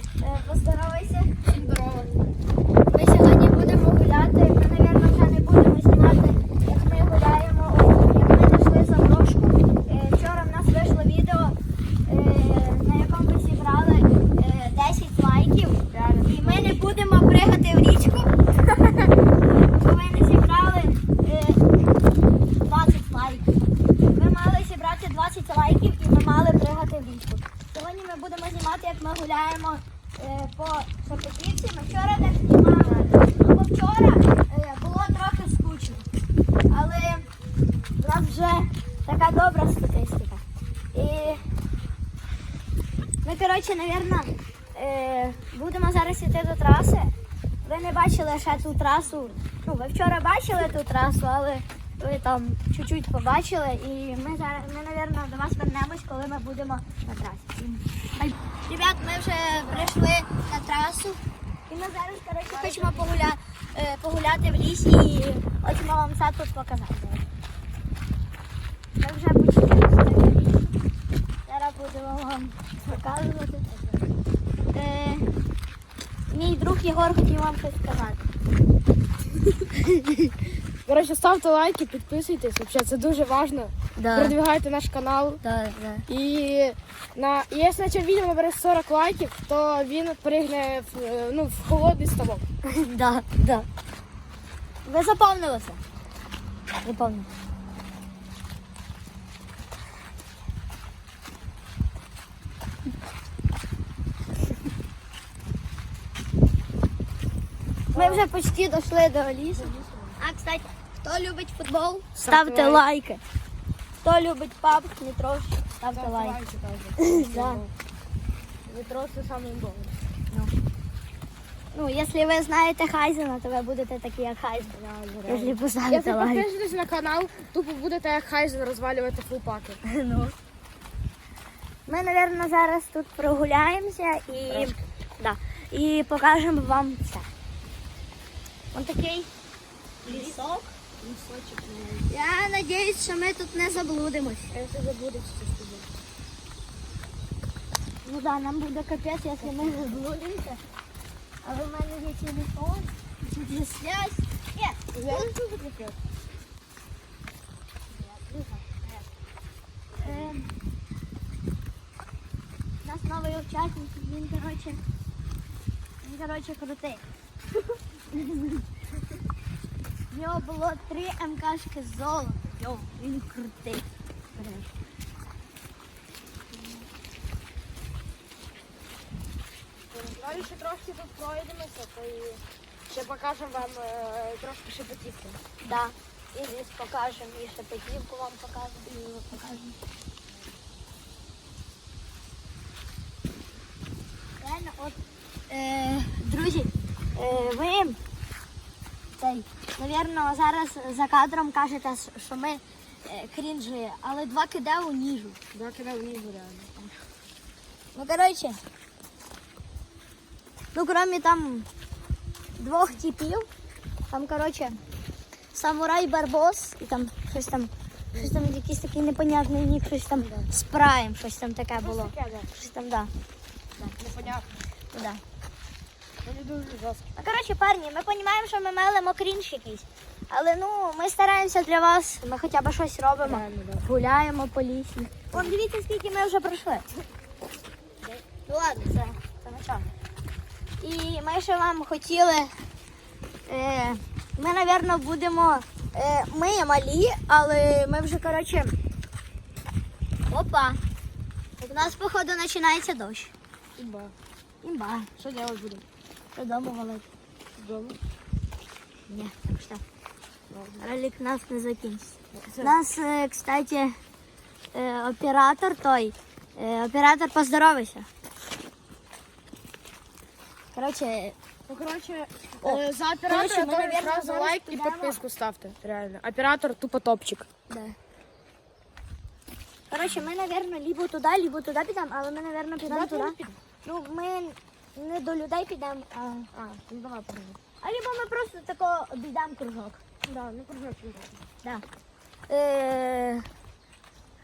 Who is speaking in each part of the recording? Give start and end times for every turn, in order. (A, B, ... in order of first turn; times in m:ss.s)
0:00.2-0:01.3 A
0:01.5-0:02.1 B
0:02.9-0:21.6 A
0:15.9-0:16.8 B
0:22.6-0:23.5 A
0:24.1-0:36.1 A
0:36.7-0:37.3 A
0:38.0-0:40.4 A
0:40.9-0:41.4 A
0:43.2-1:07.3 A
1:02.5-1:03.1 B
1:09.0-1:10.7 A
1:11.5-1:13.7 A
1:14.7-1:15.3 A
1:16.3-1:18.3 A
1:19.8-1:20.3 A
1:20.9-1:25.4 B
1:24.0-1:24.4 A
1:25.4-1:26.1 A
1:26.1-1:32.4 B
1:32.6-1:33.7 A
1:34.8-1:35.8 A
1:36.8-1:37.3 A
1:47.9-1:48.3 B
1:48.0-1:53.2 A
1:49.6-1:50.2 B
1:52.2-1:52.8 B
1:54.0-1:56.4 A
1:55.9-1:57.7 B
1:57.0-1:57.6 A
1:58.7-2:00.0 B
2:01.7-2:04.7 A
2:04.7-2:09.8 B
2:05.3-2:06.5 A
2:09.8-2:10.4 A
2:11.9-2:17.3 A
2:14.5-2:14.8 B
2:18.7-2:19.3 A
2:20.0-2:20.4 B
2:20.1-2:20.7 A
2:21.0-2:22.1 B
2:22.1-2:24.5 A
2:24.5-2:25.9 B
2:28.0-2:30.6 A
2:29.4-2:30.0 B
2:31.4-2:35.4 A
2:34.9-2:36.0 B
2:37.9-2:38.9 A
2:40.0-2:40.3 B
2:40.0-2:40.5 A
2:42.8-2:44.8 A
2:46.0-2:47.0 A
2:48.1-2:48.7 A
2:50.1-2:53.9 A
2:56.5-2:56.9 A
2:59.9-3:05.4 B
3:05.6-3:09.8 A
3:14.4-3:18.0 A
3:19.2-3:25.4 A
3:25.5-3:27.0 B
3:27.9-3:28.6 A
3:30.7-3:31.7 A
3:32.6-3:33.5 A
3:34.1-3:34.8 A
3:35.5-3:43.1 A
3:40.2-3:40.5 B
3:41.8-3:42.5 B
3:43.8-3:44.5 B
3:44.9-3:45.2 A
3:46.2-3:47.0 B
3:47.2-3:56.9 A
3:53.2-3:53.9 B
3:58.5-3:59.9 A
4:00.8-4:02.5 A
4:03.5-4:08.8 A
4:10.3-4:10.8 A
4:11.6-4:13.3 A
4:13.8-4:14.1 B
4:14.6-4:15.1 A
4:15.2-4:15.8 B
4:16.4-4:17.0 A
4:17.6-4:18.0 B
4:19.1-4:19.8 A
4:20.5-4:20.9 B
4:20.8-4:24.0 A
4:22.3-4:22.8 B
4:24.7-4:28.1 A
4:30.7-4:31.4 A
4:31.7-4:37.5 B
4:32.6-4:35.2 A
4:37.7-4:38.0 A
4:39.9-4:46.5 A
4:42.9-4:43.6 B
4:46.5-4:47.6 B
4:47.8-4:50.0 A
4:50.2-4:51.4 B
4:52.5-4:53.5 A